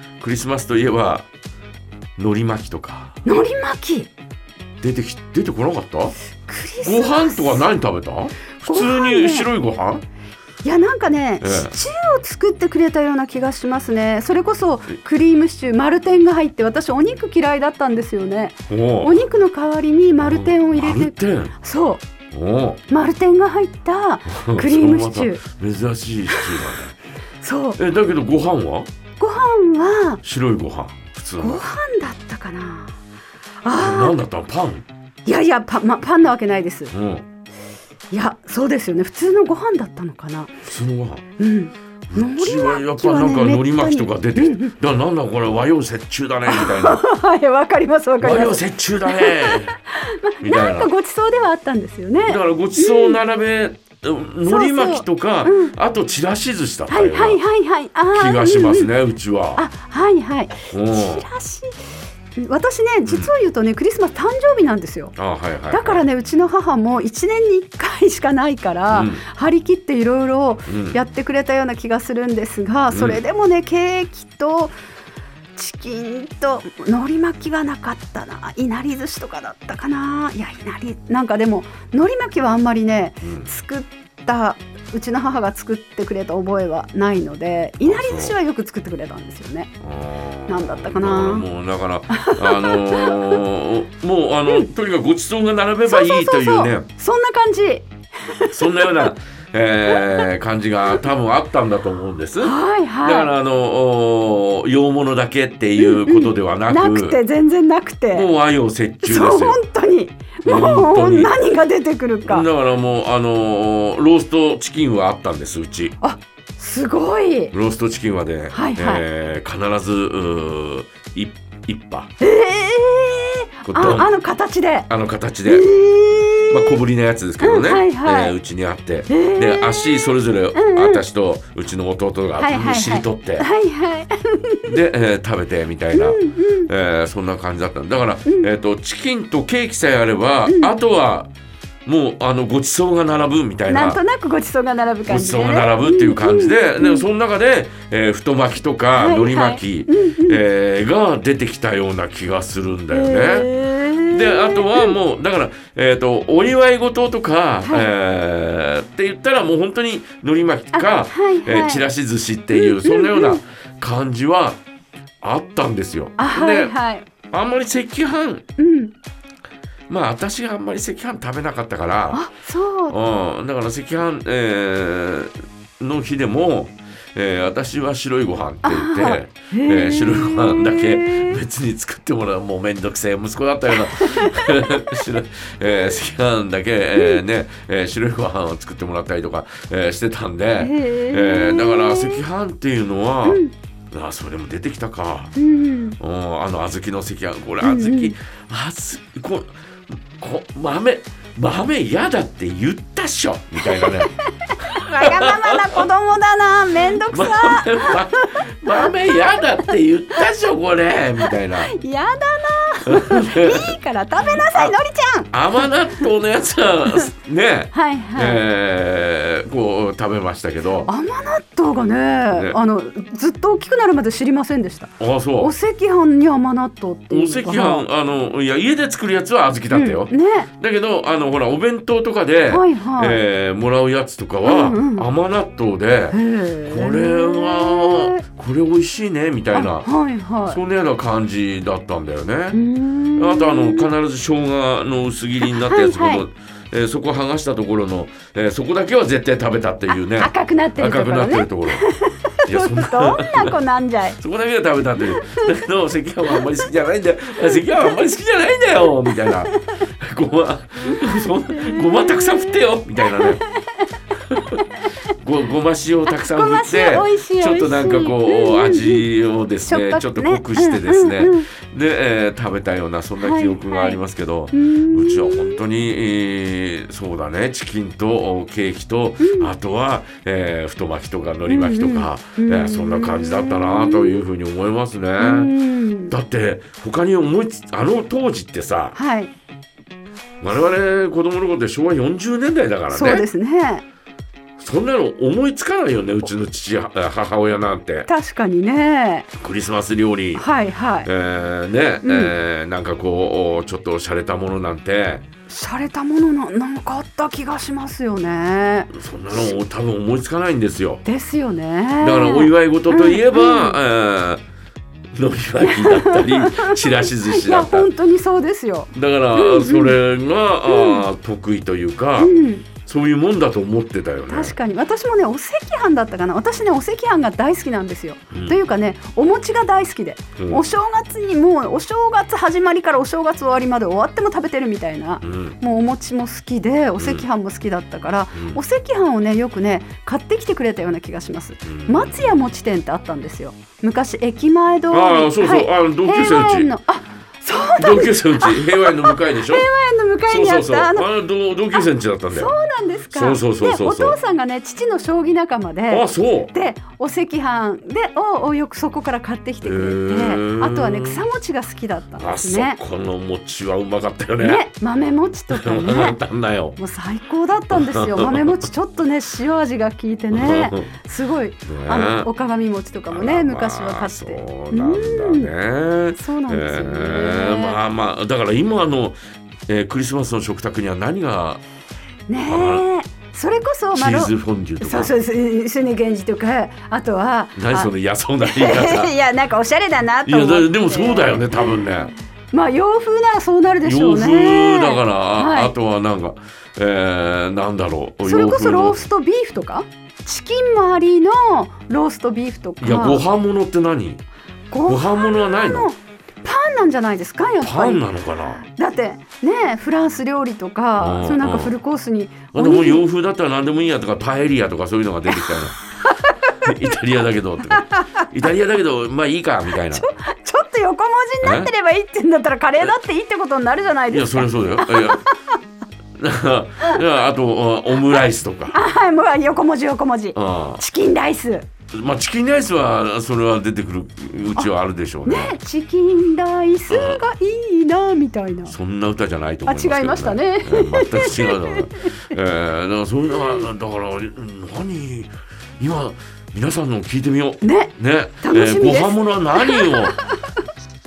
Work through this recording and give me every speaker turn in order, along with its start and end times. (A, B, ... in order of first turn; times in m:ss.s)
0:00.2-0:01.3 A
0:02.2-0:03.2 A
0:03.2-0:04.1 B
0:04.8-0:06.2 A
0:06.5-0:07.7 B
0:06.8-0:10.0 A
0:08.6-0:09.5 B
0:10.6-0:22.0 B
0:11.4-0:11.7 A
0:18.7-0:19.2 A
0:20.2-0:21.5 A
0:22.3-0:22.8 A
0:22.9-0:25.4 B
0:24.3-0:27.0 A
0:26.3-0:26.7 B
0:27.4-0:27.8 B
0:27.8-0:28.9 A
0:29.2-0:30.2 B
0:30.2-0:31.6 A
0:31.4-0:32.9 B
0:33.6-0:34.2 B
0:33.8-0:34.8 A
0:35.3-0:36.9 B
0:36.9-0:37.2 A
0:38.1-0:40.5 B
0:40.7-0:41.2 A
0:41.4-0:44.7 B
0:42.1-0:47.0 A
0:46.5-0:53.2 B
0:48.2-0:49.8 A
0:50.4-0:50.9 A
0:52.2-0:57.4 A
0:54.5-0:55.8 B
0:56.9-0:58.9 B
0:58.1-0:59.6 A
0:59.6-1:05.2 B
1:00.7-1:01.2 A
1:05.2-1:06.0 A
1:05.7-1:14.7 B
1:08.9-1:09.2 A
1:10.7-1:11.0 A
1:12.9-1:13.2 A
1:15.6-1:29.7 B
1:23.2-1:23.5 A
1:27.8-1:28.3 A
1:29.8-1:36.9 A
1:30.5-1:31.5 B
1:32.1-1:33.4 B
1:35.9-1:39.1 B
1:38.5-1:47.2 A
1:39.9-1:40.3 B
1:42.4-1:43.3 B
1:45.8-1:48.3 B
1:48.1-1:49.6 A
1:49.0-1:52.5 B
1:50.4-1:51.4 A
1:52.2-1:56.0 A
1:56.0-1:57.5 B
1:57.5-2:02.1 A
1:58.5-1:59.0 B
2:02.2-2:04.9 B
2:03.7-2:04.1 A
2:04.9-2:05.7 A
2:05.4-2:06.8 B
2:06.5-2:13.5 A
2:07.4-2:08.4 B
2:09.1-2:11.0 B
2:12.4-2:14.8 B
2:14.6-2:21.3 A
2:15.9-2:16.7 B
2:18.2-2:18.5 B
2:20.5-2:20.7 B
2:21.9-2:24.0 A
2:23.7-2:27.0 B
2:25.1-2:33.5 A
2:28.9-2:30.4 B
2:32.9-2:35.0 B
2:34.1-2:44.6 A
2:40.7-2:41.9 B
2:42.5-2:43.4 B
2:45.2-2:46.8 A
2:46.2-2:47.0 B
2:47.3-2:48.4 A
2:48.6-2:48.9 B
2:49.9-2:52.2 A
2:52.1-2:53.0 B
2:52.9-3:15.4 A
2:58.6-3:01.4 B
3:03.7-3:05.1 B
3:07.0-3:07.2 B
3:10.6-3:12.2 B
3:13.2-3:13.5 B
3:15.4-3:16.0 B
3:16.0-3:25.8 A
3:17.6-3:18.1 B
3:23.6-3:29.7 B
3:27.0-3:31.7 A
3:31.2-3:35.7 B
3:32.9-3:33.8 A
3:34.5-3:34.8 A
3:35.3-3:40.9 A
3:37.7-3:38.4 B
3:40.9-3:47.9 B
3:42.3-3:42.6 A
3:45.0-3:45.5 A
3:47.1-3:59.9 A
3:49.7-3:50.5 B
3:52.5-3:53.2 B
3:54.4-3:55.1 B
3:56.1-3:58.2 B
3:59.5-4:00.6 B
4:00.5-4:02.6 A
4:02.5-4:03.9 B
4:03.2-4:11.9 A
4:05.4-4:06.2 B
4:10.1-4:14.2 B
4:12.4-4:13.6 A
4:14.2-4:23.4 A
4:15.0-4:15.5 B
4:19.0-4:19.6 B
4:20.9-4:23.9 B
4:24.3-4:24.6 A
4:25.1-4:45.5 A
4:26.1-4:29.0 B
4:29.7-4:31.5 B
4:33.2-4:34.0 B
4:34.5-4:35.6 B
4:39.2-4:39.5 B
4:41.5-4:44.2 B
4:45.2-4:46.1 B
4:46.1-4:49.0 A
4:49.0-4:49.3 B
4:50.4-4:53.2 A
4:52.9-4:53.8 B
4:54.6-4:58.1 A
4:58.1-4:59.3 B
4:59.4-5:00.4 A
5:00.4-5:01.1 B
5:01.0-5:05.2 A
5:02.0-5:02.4 B
5:05.5-5:09.5 B
5:08.9-5:11.0 A
5:11.0-5:13.8 B
5:12.0-5:14.4 A
5:15.1-5:17.9 A
5:15.6-5:20.0 B
5:18.9-5:24.6 A
5:20.6-5:21.1 B
5:22.2-5:22.7 B
5:24.3-5:51.1 B
5:28.3-5:28.6 A
5:35.2-5:35.6 A
5:37.0-5:37.2 A
5:41.6-5:42.4 A
5:44.9-5:46.7 A
5:47.8-5:49.7 A
5:50.3-5:52.5 A
5:51.7-6:02.8 B
5:53.1-5:54.2 A
5:55.9-5:56.5 A
5:59.6-6:01.2 A
6:02.2-6:04.7 A
6:04.4-6:06.2 B
6:05.5-6:06.8 A
6:06.8-6:15.5 B
6:07.7-6:08.4 A
6:10.3-6:10.9 A
6:11.7-6:12.3 A
6:13.1-6:21.6 A
6:16.1-6:17.8 B
6:22.3-6:31.9 B
6:22.5-6:22.8 A
6:23.9-6:25.1 A
6:27.6-6:29.1 A
6:30.3-6:32.1 A
6:32.5-6:35.7 B
6:33.8-6:39.1 A
6:38.2-6:43.2 B
6:42.8-6:44.2 A
6:44.7-6:48.1 B
6:44.9-6:45.9 A
6:47.6-6:48.6 A
6:48.6-6:53.0 B
6:51.0-6:51.7 A
6:52.5-6:55.8 A
6:55.3-6:57.0 B
6:56.6-7:00.1 A
6:57.7-6:58.3 B
6:59.9-7:05.3 B
7:01.4-7:01.7 A
7:04.1-7:05.2 A
7:06.2-7:08.8 A
7:08.7-7:11.7 B
7:10.4-7:10.8 A
7:11.9-7:15.6 A
7:15.2-7:18.7 B
7:16.9-7:17.2 A
7:18.7-7:30.2 A
7:19.7-7:22.1 B
7:27.6-7:30.3 B